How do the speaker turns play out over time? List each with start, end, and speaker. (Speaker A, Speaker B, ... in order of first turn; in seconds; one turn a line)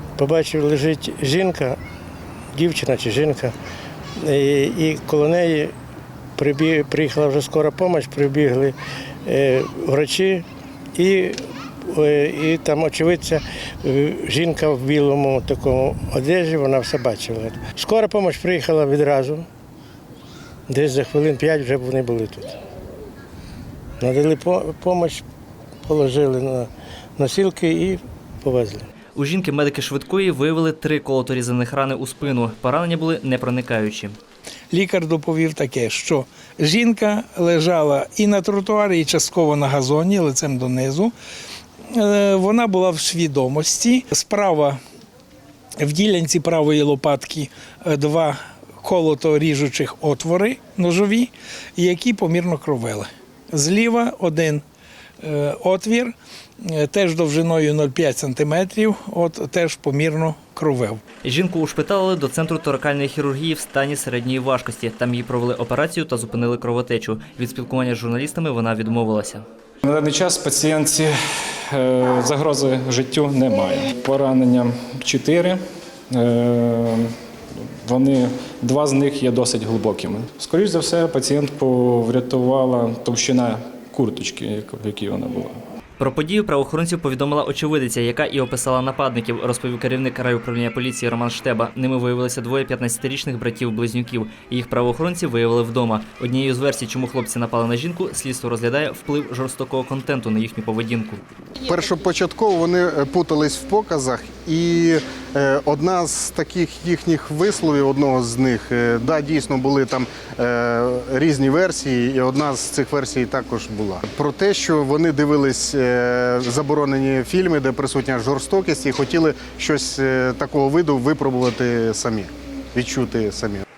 Speaker A: 0.2-1.8
Speaker A: 2.5-3.5
Speaker A: 4.2-5.7
Speaker A: 6.4-19.5
Speaker A: 20.7-22.6
Speaker A: 24.0-25.2
Speaker A: 25.9-28.9
Speaker B: 29.1-34.2
Speaker C: 34.7-41.1
Speaker C: 41.9-44.8
Speaker C: 45.8-54.6
Speaker C: 55.2-61.0
Speaker B: 61.2-69.5
Speaker D: 69.8-71.1
Speaker D: 71.7-75.6
Speaker D: 76.1-77.1
Speaker D: 77.8-85.6
Speaker B: 86.0-101.2
Speaker E: 101.7-123.6